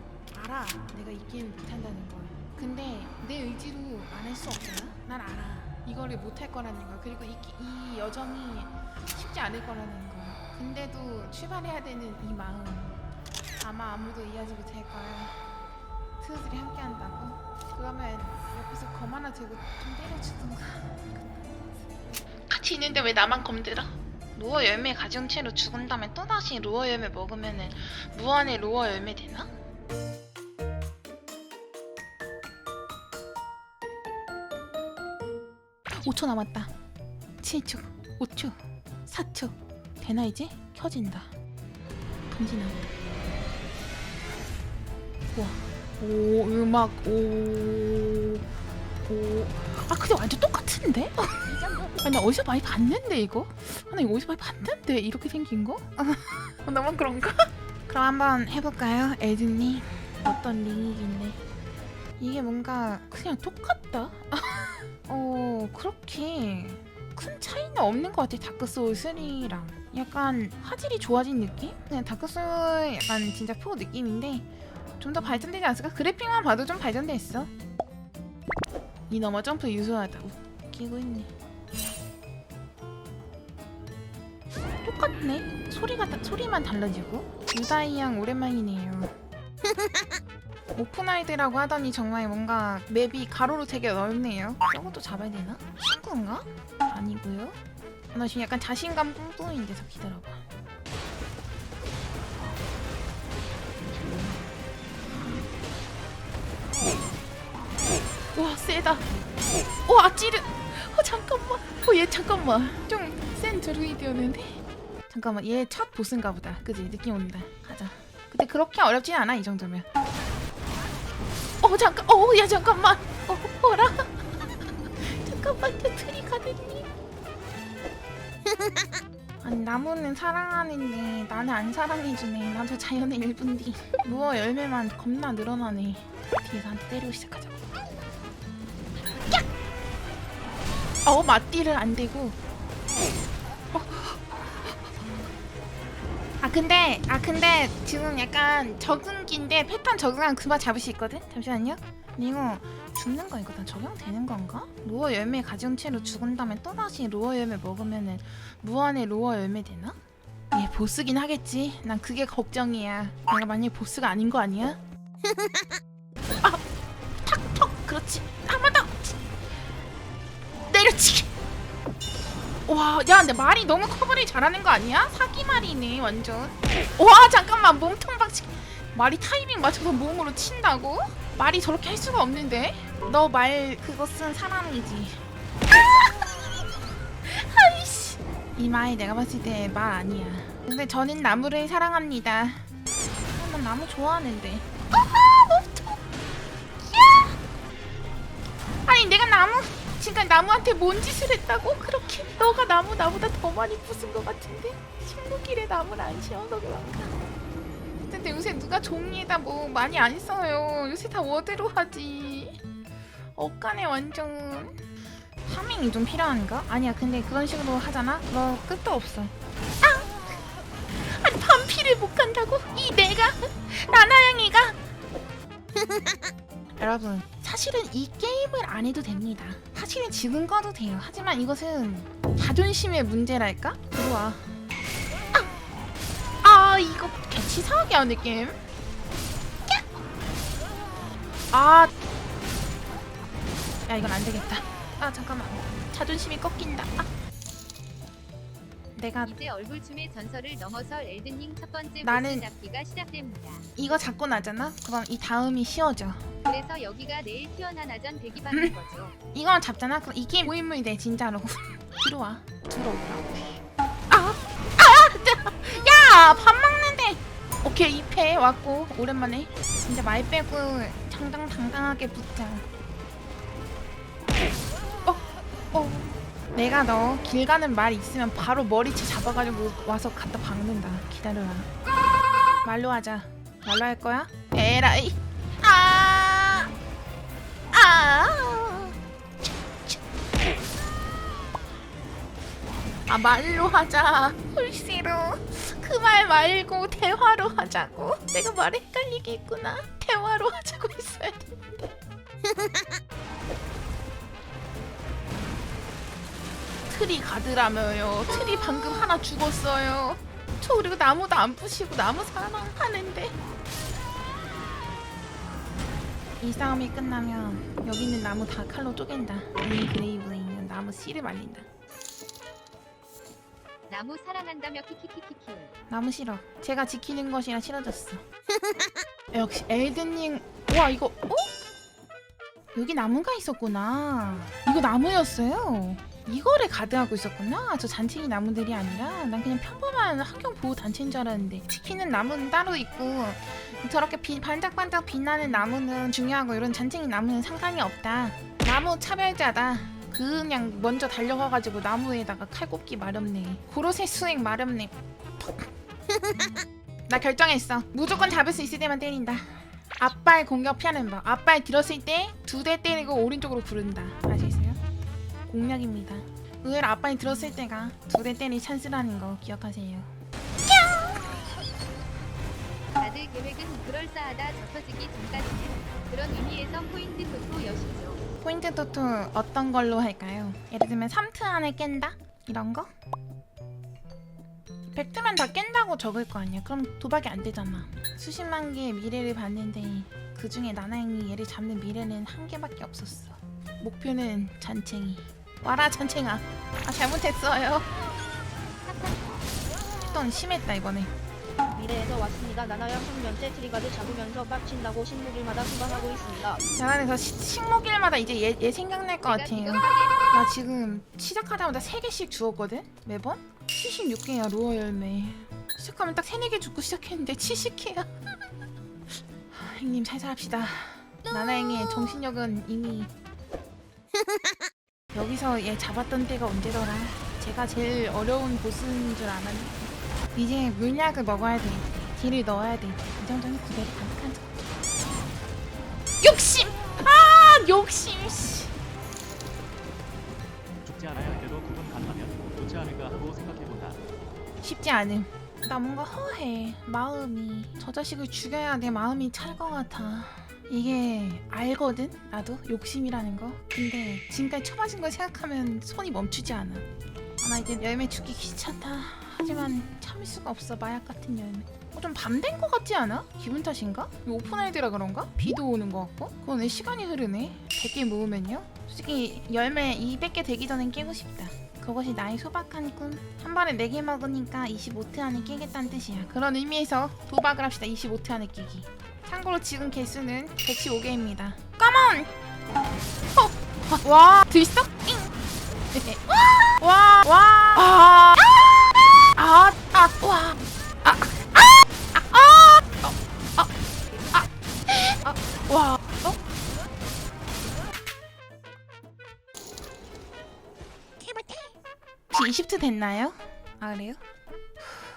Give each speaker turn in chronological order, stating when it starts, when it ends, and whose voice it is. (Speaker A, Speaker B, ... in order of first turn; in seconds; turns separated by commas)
Speaker A: 0.3-13.0, Speaker A: 13.6-15.5, Speaker A: 16.2-21.9, Speaker A: 22.5-29.5, Speaker A: 35.9-36.7, Speaker A: 37.4-41.3, Speaker A: 42.3-42.9, Speaker A: 45.3-48.4, Speaker A: 49.1-61.4, Speaker B: 51.5-52.0, Speaker A: 62.2-74.5, Speaker A: 75.0-77.5, Speaker A: 79.1-81.3, Speaker A: 84.8-89.1, Speaker A: 90.7-97.6, Speaker A: 98.1-100.4, Speaker A: 108.3-109.1, Speaker A: 109.8-119.8, Speaker A: 121.6-126.9, Speaker A: 129.4-137.6, Speaker A: 139.1-139.5, Speaker A: 141.0-142.4, Speaker A: 143.7-144.9, Speaker A: 146.4-160.0, Speaker A: 160.5-164.8, Speaker A: 167.2-169.2, Speaker A: 170.7-171.3, Speaker A: 172.7-186.7, Speaker A: 187.2-192.7, Speaker A: 193.3-196.0, Speaker A: 196.8-197.3, Speaker A: 198.8-207.2, Speaker A: 208.0-212.6, Speaker A: 213.3-214.8, Speaker A: 215.4-224.8, Speaker A: 226.8-234.5, Speaker A: 236.4-238.6, Speaker A: 241.5-241.9, Speaker A: 243.9-247.1, Speaker A: 248.9-249.3, Speaker C: 249.2-253.7, Speaker A: 252.0-252.5, Speaker A: 253.8-256.3, Speaker C: 256.4-259.1, Speaker A: 258.5-258.8, Speaker A: 259.3-272.6, Speaker A: 275.1-281.7, Speaker A: 282.6-286.7, Speaker A: 287.7-288.9, Speaker A: 293.1-301.8, Speaker A: 306.9-313.4, Speaker A: 316.4-321.6, Speaker C: 323.9-325.7, Speaker A: 325.9-328.2, Speaker A: 329.3-331.5, Speaker A: 332.7-355.7, Speaker A: 357.1-364.8, Speaker A: 365.5-370.1, Speaker C: 373.0-378.2, Speaker A: 378.4-382.9, Speaker A: 384.9-397.9, Speaker C: 398.9-399.4, Speaker A: 400.0-401.1, Speaker B: 401.7-406.6, Speaker A: 406.8-418.1, Speaker C: 409.2-410.2, Speaker A: 419.5-423.1, Speaker A: 425.1-434.6, Speaker A: 436.2-438.7, Speaker D: 440.8-444.0, Speaker A: 444.6-456.9, Speaker A: 457.4-482.3, Speaker A: 483.3-485.3, Speaker A: 485.9-493.7, Speaker A: 494.3-496.4, Speaker A: 502.3-504.2